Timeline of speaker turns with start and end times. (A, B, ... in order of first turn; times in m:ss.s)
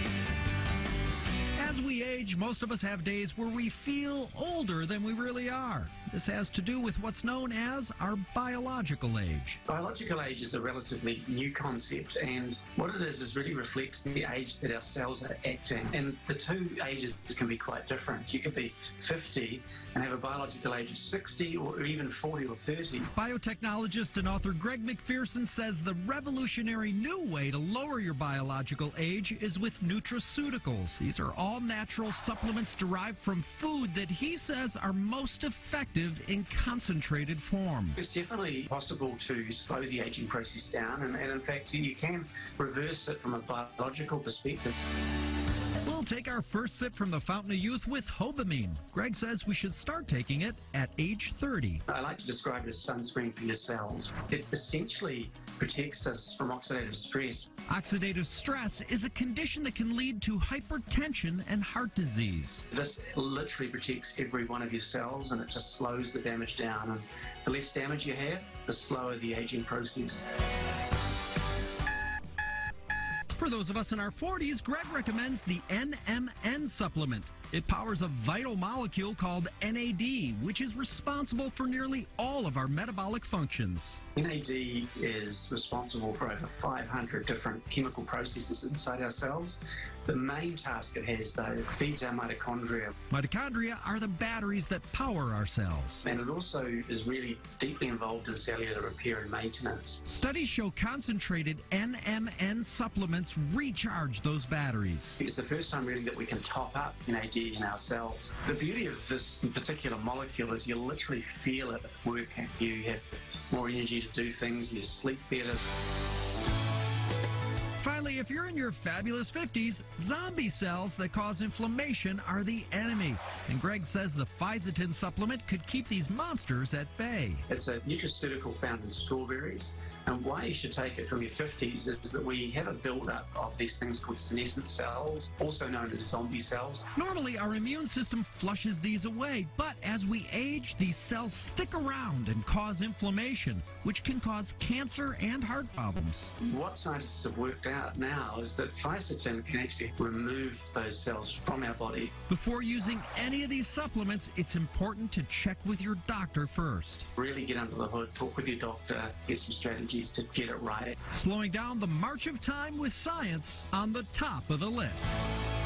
0:01.6-0:09.6 A
0:09.7-0:23.1 B
0:23.1-0:38.0 A
0:38.0-0:44.7 B
0:45.8-0:51.8 A
0:51.9-0:57.5 B
0:57.7-1:02.6 A
1:02.7-1:10.2 B
1:13.3-1:24.0 A
1:24.1-1:32.9 B
1:33.1-1:36.0 A
1:36.0-1:40.0 B
1:40.0-1:45.2 A
1:45.2-1:55.6 B
1:57.8-2:07.4 A
2:07.5-2:16.9 B
2:16.9-2:26.3 A
2:26.4-2:32.1 B
2:32.3-2:37.1 A
2:37.2-2:41.0 B
2:41.1-2:45.2 A